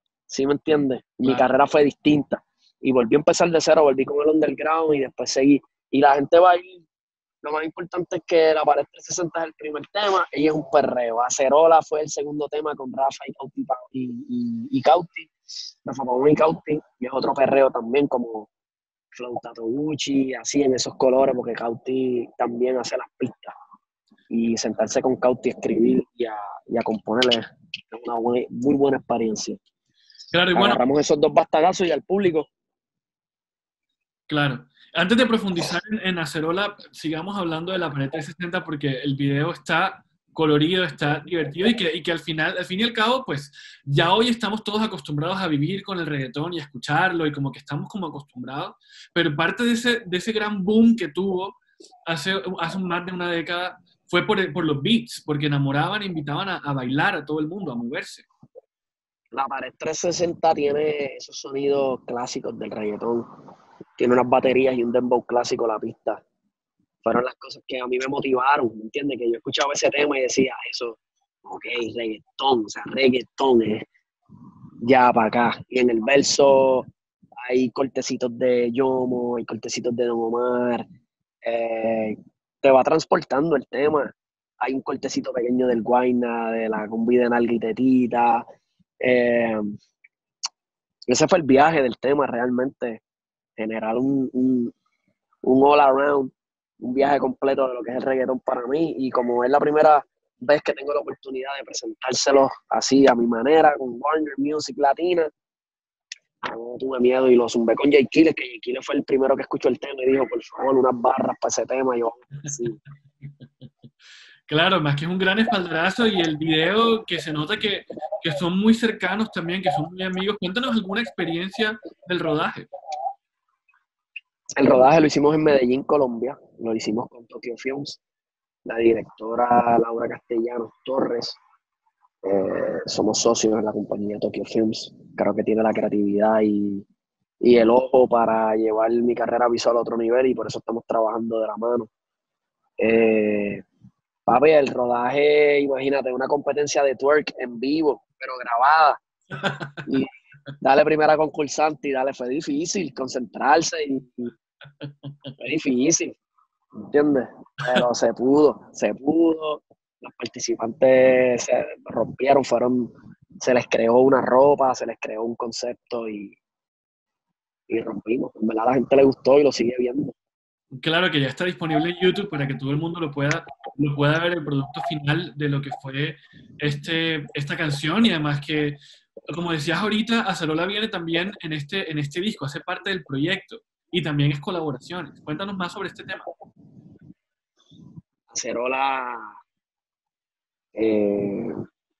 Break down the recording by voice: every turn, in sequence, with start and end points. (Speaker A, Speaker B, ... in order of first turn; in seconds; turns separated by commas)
Speaker A: 0.3-6.8, Speaker B: 1.2-1.5, Speaker A: 7.4-15.3, Speaker A: 15.8-18.5, Speaker A: 19.1-23.5, Speaker A: 24.3-29.6, Speaker B: 30.3-30.8, Speaker A: 30.5-32.5, Speaker B: 34.3-58.2, Speaker A: 59.3-63.4, Speaker A: 64.0-66.2, Speaker A: 67.0-73.9, Speaker A: 74.8-76.9, Speaker A: 77.4-80.8, Speaker A: 81.4-88.4, Speaker A: 89.0-89.7, Speaker A: 91.1-93.0, Speaker A: 93.6-94.7, Speaker A: 95.4-105.3, Speaker A: 106.4-112.8, Speaker B: 114.5-122.7, Speaker A: 124.5-128.0, Speaker A: 128.7-131.4, Speaker A: 132.2-136.8, Speaker A: 137.4-141.9, Speaker A: 142.8-143.6, Speaker A: 144.3-149.0, Speaker B: 149.3-149.9, Speaker A: 150.6-154.3, Speaker B: 154.8-155.3, Speaker A: 155.4-156.1, Speaker A: 156.8-166.3, Speaker B: 157.6-157.8, Speaker A: 167.7-170.1, Speaker B: 170.7-186.2, Speaker A: 188.3-189.4, Speaker A: 190.7-191.5